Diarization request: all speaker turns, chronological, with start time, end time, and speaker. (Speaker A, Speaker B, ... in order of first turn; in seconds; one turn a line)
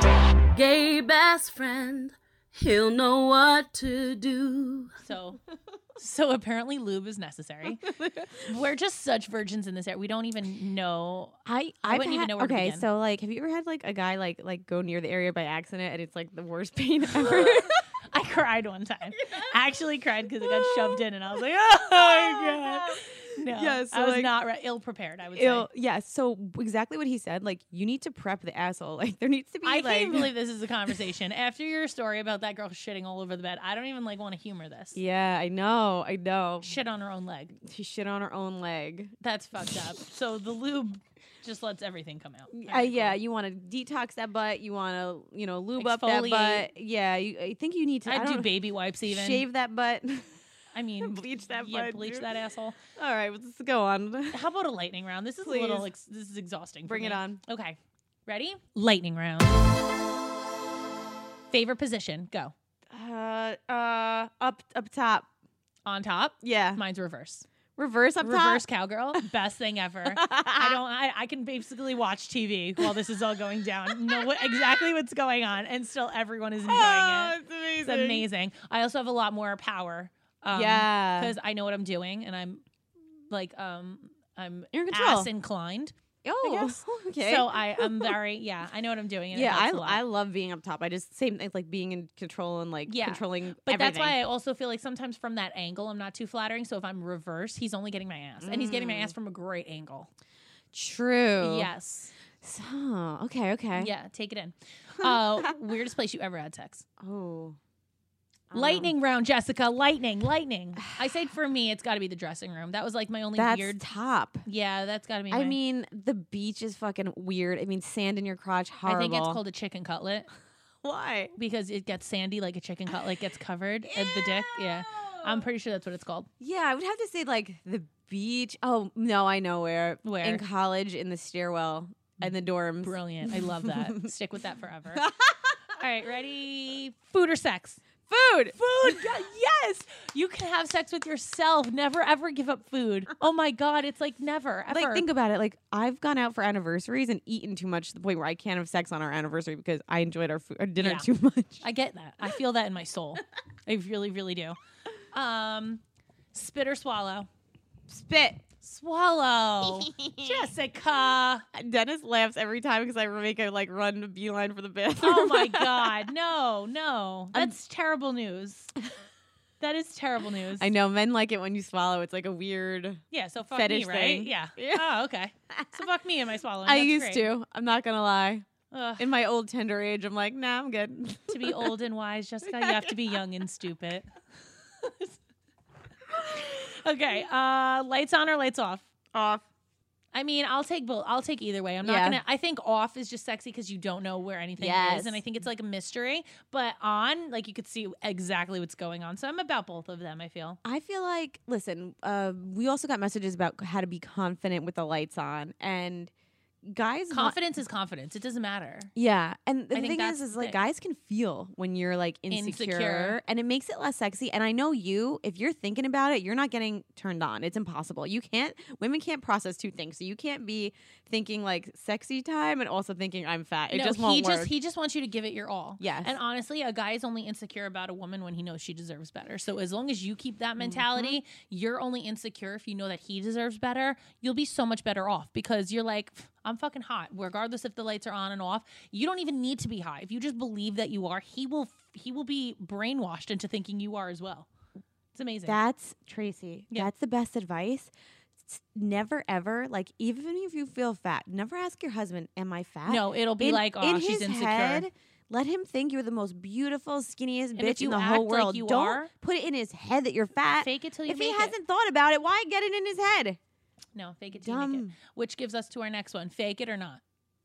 Speaker A: 0.6-5.0
Speaker B: 5.0-5.4
Speaker B: 6.0-12.9
Speaker C: 7.9-8.3
Speaker C: 11.4-17.8
Speaker B: 17.1-25.7
Speaker C: 20.5-21.0
Speaker C: 21.9-24.3
Speaker C: 25.4-30.3
Speaker B: 29.6-35.0
Speaker C: 35.0-36.8
Speaker B: 36.6-37.5
Speaker C: 37.5-39.1
Speaker B: 39.2-43.2
Speaker C: 42.5-48.5
Speaker B: 45.8-46.7
Speaker B: 48.0-49.5
Speaker C: 49.0-50.3
Speaker B: 50.7-52.8
Speaker C: 51.0-52.3
Speaker C: 53.0-54.4
Speaker B: 54.3-59.6
Speaker C: 55.4-55.9
Speaker C: 56.9-57.4
Speaker B: 61.5-62.5
Speaker C: 62.9-65.3
Speaker B: 65.8-67.5
Speaker C: 66.4-66.8
Speaker C: 67.8-68.6
Speaker B: 68.2-82.6
Speaker C: 70.1-70.8
Speaker C: 74.0-74.7
Speaker C: 76.6-78.2
Speaker C: 80.5-81.3
Speaker B: 83.3-90.0
Speaker C: 84.7-85.3
Speaker C: 86.2-88.1
Speaker C: 89.3-94.2
Speaker B: 92.9-100.1
Speaker C: 98.4-99.1
Speaker C: 100.7-101.7
Speaker B: 101.4-102.2
Speaker C: 102.4-103.9
Speaker B: 103.7-106.8
Speaker C: 105.0-105.5
Speaker C: 107.0-107.6
Speaker C: 108.5-108.9
Speaker B: 108.5-113.8
Speaker C: 113.3-114.5
Speaker B: 114.5-115.6
Speaker C: 115.3-119.4
Speaker B: 118.9-120.3
Speaker C: 120.8-121.3
Speaker B: 121.3-126.3
Speaker C: 123.9-125.4
Speaker C: 126.4-134.1
Speaker B: 130.0-130.4
Speaker B: 132.8-135.1
Speaker C: 134.9-135.6
Speaker B: 135.7-137.8
Speaker C: 138.1-139.1
Speaker B: 138.5-145.1
Speaker C: 144.7-151.6
Speaker B: 150.8-151.1
Speaker B: 151.6-154.6
Speaker B: 155.1-155.8
Speaker B: 156.3-157.3
Speaker C: 157.9-158.4
Speaker B: 158.6-161.4
Speaker C: 159.6-160.5
Speaker C: 161.5-166.0
Speaker B: 165.0-168.8
Speaker B: 169.6-170.7
Speaker C: 170.6-174.9
Speaker B: 173.1-177.3
Speaker C: 175.5-175.8
Speaker C: 176.6-178.5
Speaker B: 178.7-179.1
Speaker C: 179.0-181.6
Speaker B: 181.3-184.1
Speaker C: 182.5-182.9
Speaker B: 184.8-185.1
Speaker B: 186.2-188.9
Speaker C: 189.1-189.4
Speaker B: 190.1-200.6
Speaker C: 191.8-192.2
Speaker C: 194.6-195.2
Speaker C: 200.6-206.1
Speaker C: 206.6-207.4
Speaker B: 207.1-208.9
Speaker C: 208.9-224.5
Speaker B: 209.7-210.6
Speaker B: 212.3-213.2
Speaker B: 223.7-244.5
Speaker C: 225.8-226.2
Speaker C: 230.6-231.2
Speaker B: 245.1-245.6
Speaker C: 245.4-263.4
Speaker B: 252.9-254.9
Speaker B: 257.6-259.1
Speaker B: 260.6-261.6
Speaker B: 263.9-267.0
Speaker C: 264.4-264.9